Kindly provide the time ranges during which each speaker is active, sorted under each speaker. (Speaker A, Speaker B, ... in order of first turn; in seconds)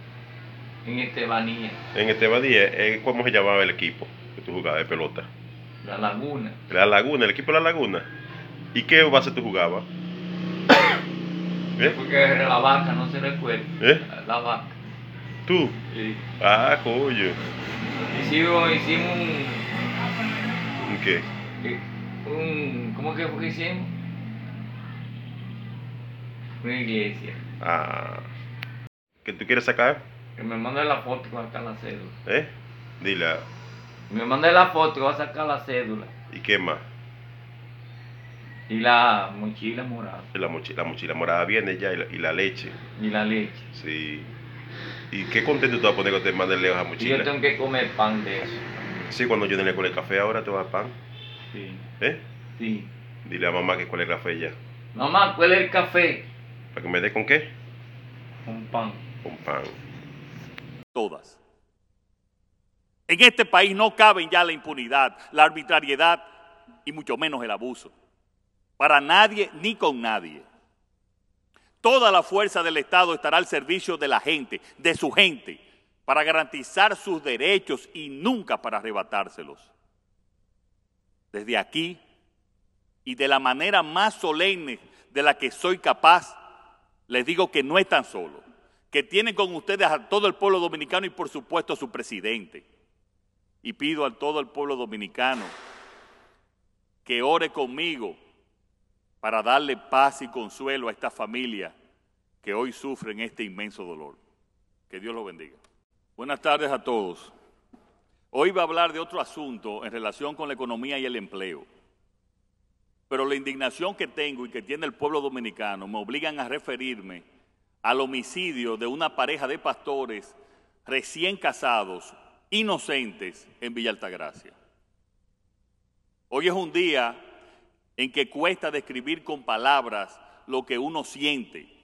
Speaker A: 0.8-1.8, 5.8-6.6, 11.8-14.8, 15.9-16.3, 18.1-19.7, 21.6-23.9, 26.6-27.4, 30.4-32.1, 34.1-36.1, 38.7-40.3, 43.0-43.7, 47.0-48.6, 51.5-51.8, 52.6-52.9, 54.9-56.3, 58.5-59.0
Speaker B: 1.9-5.3, 6.7-8.1, 8.7-9.9, 15.5-15.8, 16.4-17.4, 20.8-21.3, 27.6-28.3, 29.2-30.0, 32.3-33.5, 36.3-36.8, 40.3-42.8, 43.7-44.3, 45.1-47.3, 49.1-51.0, 53.2-54.6, 56.7-57.5, 59.2-59.8
Speaker C: 60.9-61.4, 63.1-66.3, 66.8-67.9, 68.8-70.5, 71.8-79.7, 81.3-82.0, 83.0-86.4, 87.1-92.7, 93.6-95.6, 97.1-98.2, 99.2-101.8, 102.4-104.2, 104.9-105.6, 106.2-107.3, 108.3-111.7, 113.1-117.2, 117.8-120.3, 120.9-124.5, 126.3-127.2, 128.0-131.7